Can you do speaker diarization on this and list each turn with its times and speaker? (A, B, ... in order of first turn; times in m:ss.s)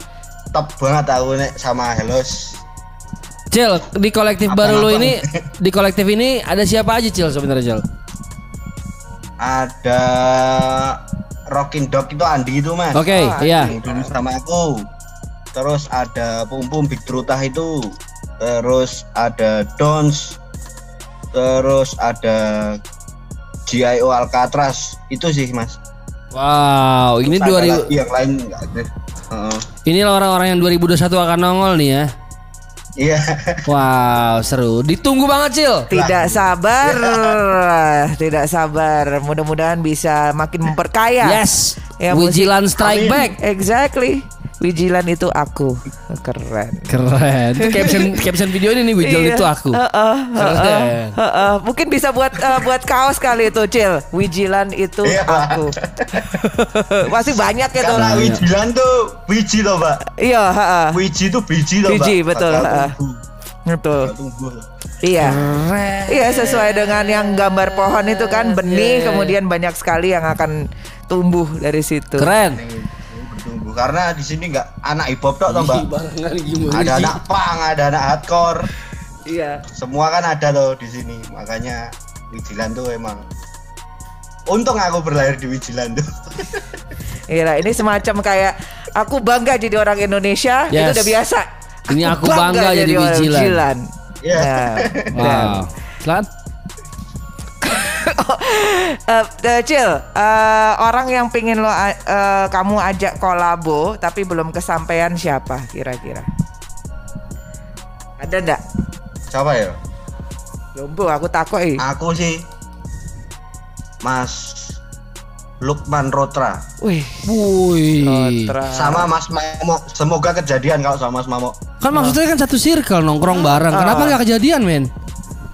0:00.5-0:02.6 A
0:03.5-0:07.8 B
0:04.5-0:05.4 A
0:09.4-0:14.9 A
0:12.9-0:13.7 B
0:13.1-0:14.1 C
0:15.5-0:20.4 A
0:21.3-0:22.8 A
0:23.7-0:25.8 A
0:26.3-0:27.9 B
0:27.2-0:29.7 A
0:29.9-0:32.1 B
0:33.0-0:33.7 A
0:33.7-0:35.9 B
0:35.9-0:41.4 C
0:35.9-0:37.4 A
0:41.2-0:43.4 B
0:42.0-0:42.5 C
0:42.8-0:43.3 A
0:43.4-0:46.9 C
0:46.9-0:49.8 B
0:47.6-0:48.2 C
0:49.0-0:58.2 C
0:50.4-0:51.2 B
0:55.0-0:56.4 A
0:57.1-1:00.0 A
0:57.9-0:58.4 B
1:00.2-1:01.0 C
1:00.9-1:03.2 A
1:01.9-1:02.9 C
1:03.7-1:04.1 C
1:04.0-1:04.7 A
1:05.0-1:05.4 C
1:05.2-1:09.4 B
1:06.1-1:12.3 C
1:12.2-1:12.6 B
1:12.5-1:15.9 A
1:15.5-1:17.2 B
1:16.7-1:18.7 A
1:19.3-1:19.6 C
1:19.7-1:23.3 A
1:24.5-1:26.7 A
1:27.3-1:35.6 C
1:30.7-1:31.2 B
1:31.9-1:33.6 B
1:34.2-1:35.4 A
1:35.2-1:36.3 B
1:37.6-1:46.3 C
1:48.2-1:48.6 C
1:49.3-1:49.8 A
1:50.8-1:51.8 C
1:51.8-1:52.4 A
1:54.0-1:54.8 A
1:55.6-1:56.7 A
1:56.8-1:57.3 C
1:57.3-1:58.5 B
1:58.0-1:59.1 C
1:58.7-2:01.6 A
2:01.8-2:04.9 B
2:01.9-2:02.2 C
2:03.3-2:04.2 C